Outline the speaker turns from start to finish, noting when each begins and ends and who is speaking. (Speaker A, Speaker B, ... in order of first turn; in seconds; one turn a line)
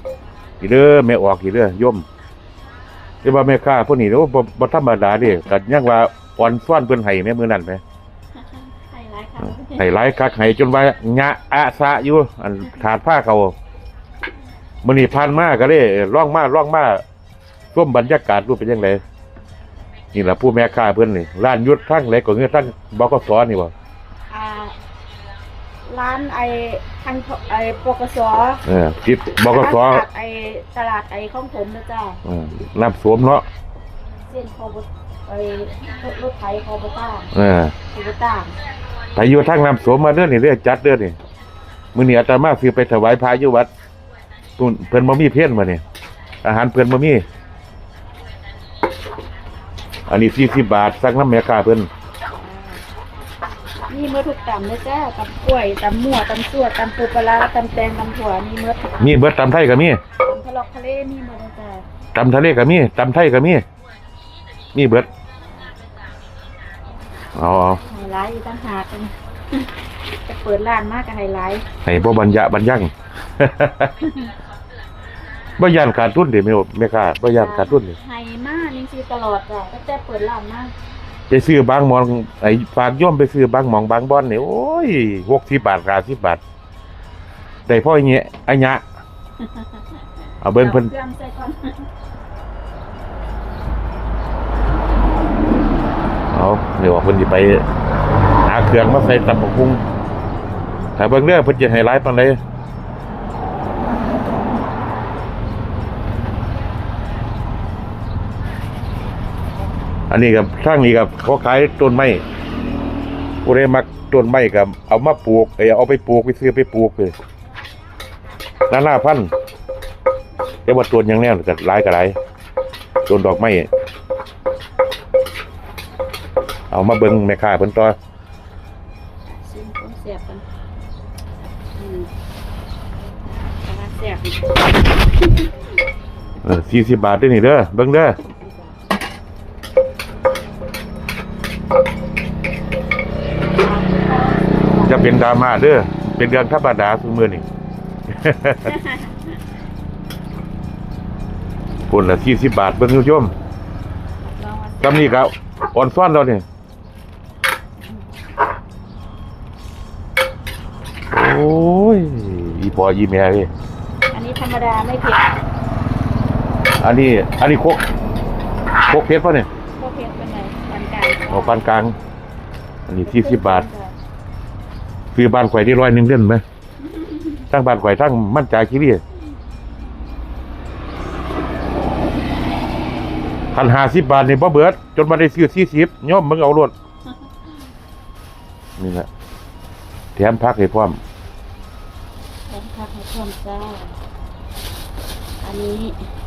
Speaker A: 0.6-2.0
Speaker A: 3.2-7.8
Speaker B: 8.5-9.8
Speaker A: 9.4-13.5
Speaker A: 14.8-17.0
Speaker A: 17.7-19.0
Speaker A: 20.1-23.7
Speaker B: 24.3-24.8
Speaker B: 25.9-28.6
Speaker A: 28.6-30.0
Speaker B: 29.5-32.2
Speaker A: 32.2-33.5
Speaker B: 34.3-37.3
Speaker A: 37.3-37.7
Speaker B: 37.9-38.5
Speaker A: 39.2-41.2
Speaker A: 42.0-43.7
Speaker A: 44.6-45.8
Speaker A: 46.4-47.2
Speaker A: 50.1-51.9
Speaker B: 52.4-52.8
Speaker B: 53.9-59.1
Speaker A: 59.0-60.0
Speaker B: 60.2-61.8
Speaker A: 62.1-63.6
Speaker A: 64.7-65.1
Speaker A: 67.3-67.8
Speaker B: 67.8-69.7
Speaker B: 70.2-71.6
Speaker A: 71.8-74.0
Speaker B: 74.0-74.3
Speaker A: 75.6-78.0
Speaker B: 77.3-80.7
Speaker A: 81.3-86.4
Speaker A: 87.7-88.8
Speaker A: 90.4-90.9
Speaker B: 90.5-91.8
Speaker A: 96.3-97.6
Speaker A: 98.5-99.8
Speaker A: 101.0-102.4
Speaker A: 110.1-112.2
Speaker A: 113.4-117.1
Speaker A: 118.7-119.3
Speaker A: 120.7-122.2
Speaker A: 123.1-123.7
Speaker A: 126.7-128.0
Speaker B: 129.2-130.4
Speaker B: 131.7-132.1
Speaker B: 133.6-135.5
Speaker A: 136.4-138.2
Speaker B: 138.2-138.7
Speaker B: 143.4-145.2
Speaker A: 144.8-147.4
Speaker A: 148.1-148.7
Speaker B: 148.6-149.2
Speaker A: 151.9-153.3
Speaker B: 154.2-155.2
Speaker A: 154.8-156.4
Speaker A: 161.1-163.5
Speaker B: 164.1-165.4
Speaker A: 166.8-167.8
Speaker A: 168.8-169.5
Speaker B: 169.8-171.6
Speaker A: 171.3-171.9
Speaker A: 172.9-173.7
Speaker B: 173.0-173.9
Speaker A: 175.1-176.4
Speaker A: 177.5-179.0
Speaker A: 183.5-186.7
Speaker A: 188.8-189.1
Speaker A: 190.2-191.0
Speaker B: 192.5-193.9
Speaker B: 195.4-196.0